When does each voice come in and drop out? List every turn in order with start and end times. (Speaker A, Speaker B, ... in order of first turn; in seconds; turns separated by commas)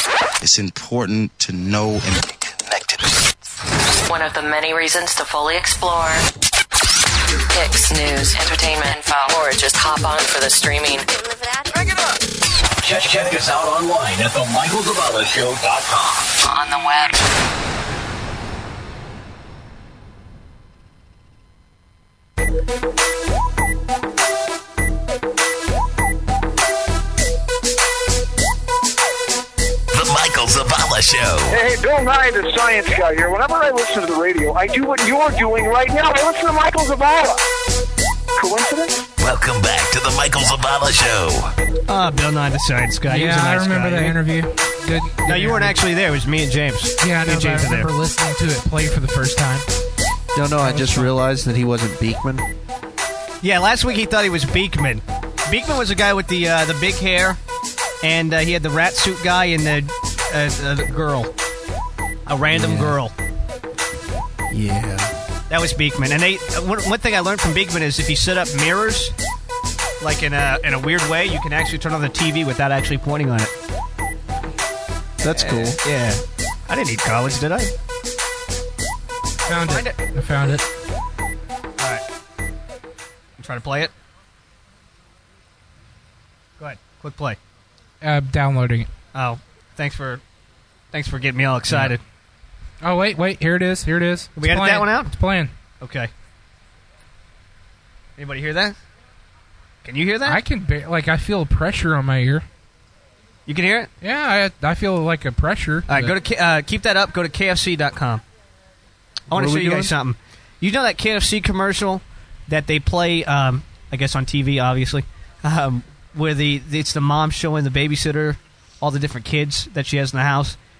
Speaker A: 0.4-3.0, Speaker B: 4.1-6.2, Speaker B: 7.5-11.3, Speaker B: 16.5-17.2, Speaker C: 29.9-31.5, Speaker D: 31.5-37.4, Speaker D: 38.4-39.0, Speaker C: 39.2-41.5, Speaker E: 41.9-44.2, Speaker F: 43.0-45.8, Speaker E: 45.3-47.9, Speaker F: 47.0-49.7, Speaker G: 50.3-52.5, Speaker F: 50.5-51.2, Speaker E: 53.4-57.4, Speaker E: 58.0-61.3, Speaker E: 62.3-63.1, Speaker G: 62.5-63.0, Speaker G: 64.5-65.1, Speaker E: 65.5-69.1, Speaker E: 70.0-73.5, Speaker G: 75.2-75.8, Speaker E: 75.3-77.7, Speaker F: 79.5-80.7, Speaker E: 79.5-80.0, Speaker E: 83.4-83.9, Speaker E: 86.6-87.4, Speaker F: 88.0-88.9, Speaker E: 89.1-90.2, Speaker E: 90.9-92.0, Speaker F: 91.7-92.0, Speaker F: 92.8-95.5, Speaker E: 94.4-95.1, Speaker E: 95.8-96.1, Speaker E: 98.2-98.8, Speaker E: 99.8-100.4, Speaker F: 100.2-102.5, Speaker E: 103.5-103.9, Speaker F: 104.0-106.2, Speaker E: 105.9-108.2, Speaker G: 109.3-109.9, Speaker E: 109.3-120.6